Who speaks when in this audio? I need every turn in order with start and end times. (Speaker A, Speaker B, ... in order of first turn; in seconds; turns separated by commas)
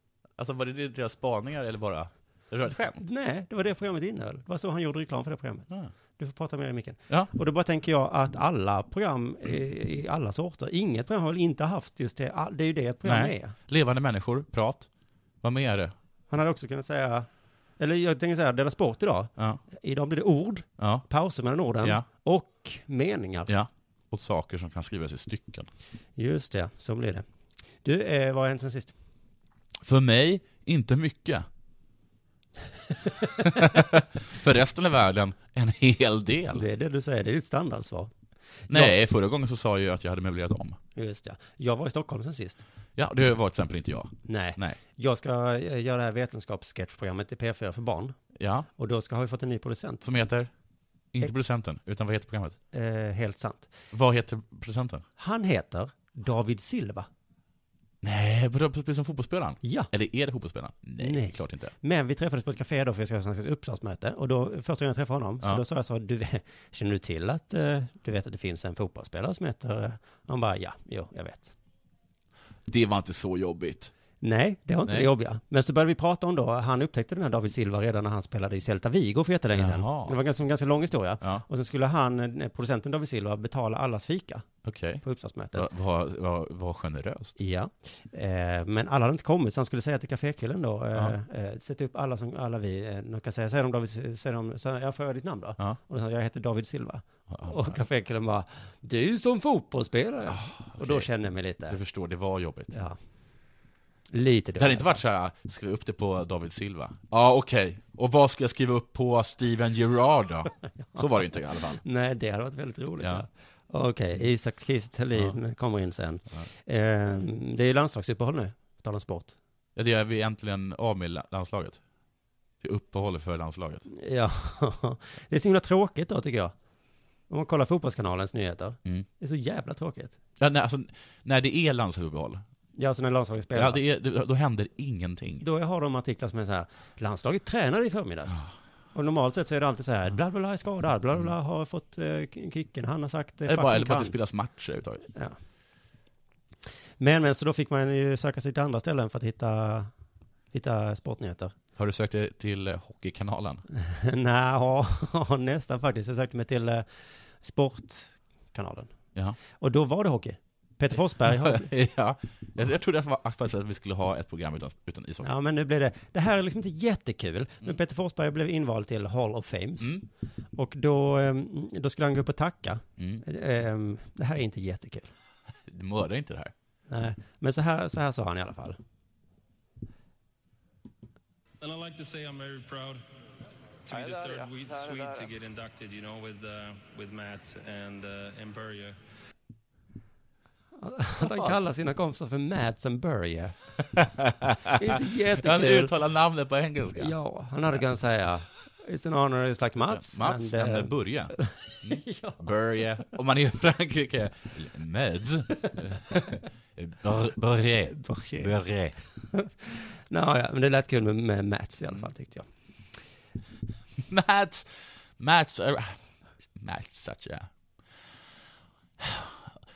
Speaker A: 0.4-3.0, Speaker B: 3.0-13.5, Speaker A: 13.0-14.9, Speaker A: 15.4-15.9, Speaker B: 16.3-17.3, Speaker B: 17.8-23.5, Speaker A: 20.8-21.0, Speaker A: 23.5-25.7, Speaker B: 26.1-27.2, Speaker B: 27.8-28.9, Speaker A: 29.8-31.4, Speaker A: 33.4-36.6, Speaker B: 36.5-38.1, Speaker B: 38.7-38.9, Speaker A: 38.7-40.8, Speaker B: 40.9-42.6, Speaker A: 43.0-44.8, Speaker B: 44.2-48.2, Speaker A: 48.4-48.7, Speaker B: 48.8-50.0, Speaker A: 50.0-50.5, Speaker A: 51.1-52.6, Speaker B: 52.7-53.7, Speaker A: 53.9-55.0, Speaker B: 55.2-57.1, Speaker A: 58.0-61.7, Speaker B: 59.6-59.9, Speaker B: 61.0-71.5, Speaker A: 72.7-73.9, Speaker B: 74.2-84.5, Speaker A: 74.8-75.1, Speaker A: 79.5-80.2, Speaker A: 84.6-87.3, Speaker B: 85.0-85.7, Speaker B: 87.4-101.8, Speaker A: 97.3-97.8, Speaker A: 100.3-101.1, Speaker A: 101.7-102.7, Speaker B: 104.1-105.0, Speaker A: 104.6-111.8, Speaker B: 111.8-119.4, Speaker A: 113.0-113.2, Speaker A: 119.8-121.8, Speaker A: 122.6-123.8, Speaker B: 123.9-126.5, Speaker B: 127.3-130.2, Speaker A: 130.4-132.4, Speaker B: 132.8-133.8, Speaker A: 133.5-135.4, Speaker B: 135.4-138.4, Speaker B: 138.9-144.2, Speaker A: 143.4-145.1, Speaker B: 147.0-149.9, Speaker B: 150.5-151.5, Speaker A: 151.8-153.6, Speaker B: 153.8-156.8, Speaker B: 157.4-158.9, Speaker B: 159.6-161.7, Speaker A: 161.2-165.3, Speaker B: 165.2-169.9, Speaker A: 169.8-170.1, Speaker B: 170.5-175.1, Speaker A: 173.0-173.2, Speaker A: 175.7-176.5, Speaker B: 176.9-178.8, Speaker C: 181.6-183.0, Speaker C: 183.8-189.0, Speaker B: 190.8-193.6, Speaker A: 191.2-191.5, Speaker A: 194.0-197.1, Speaker B: 194.7-195.9, Speaker B: 196.9-202.4, Speaker A: 199.9-209.0, Speaker B: 207.9-208.5, Speaker B: 209.3-212.5, Speaker A: 214.0-216.0, Speaker A: 216.6-217.5, Speaker A: 219.0-219.4